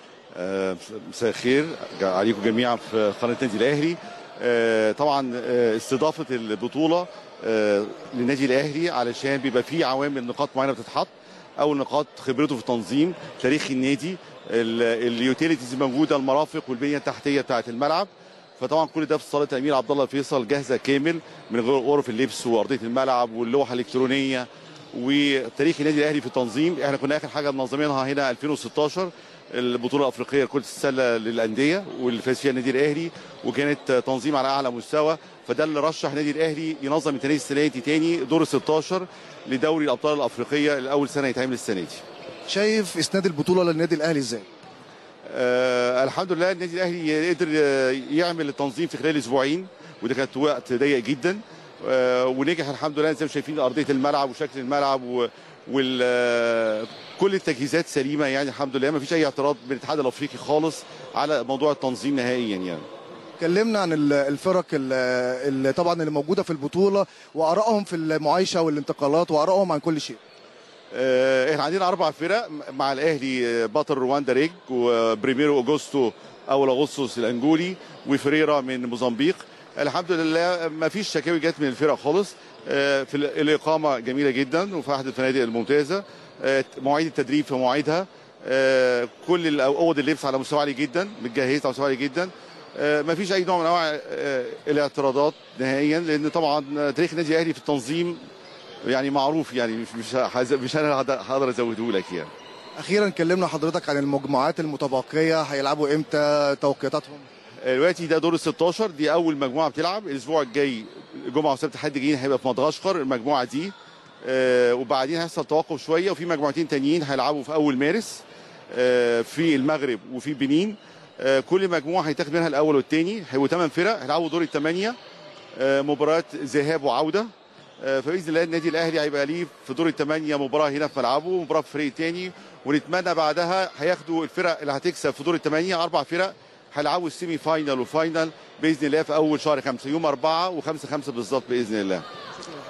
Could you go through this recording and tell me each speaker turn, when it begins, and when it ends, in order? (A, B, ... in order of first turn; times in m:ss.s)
0:00.3-0:42.0 A
0:42.5-0:44.4 B
0:45.3-1:02.8 A
1:03.4-1:10.2 B
1:10.9-1:38.2 A
1:38.9-1:42.3 A
1:42.8-1:47.3 B
1:47.6-2:05.0 A
2:05.6-2:07.3 A
2:07.8-2:22.0 A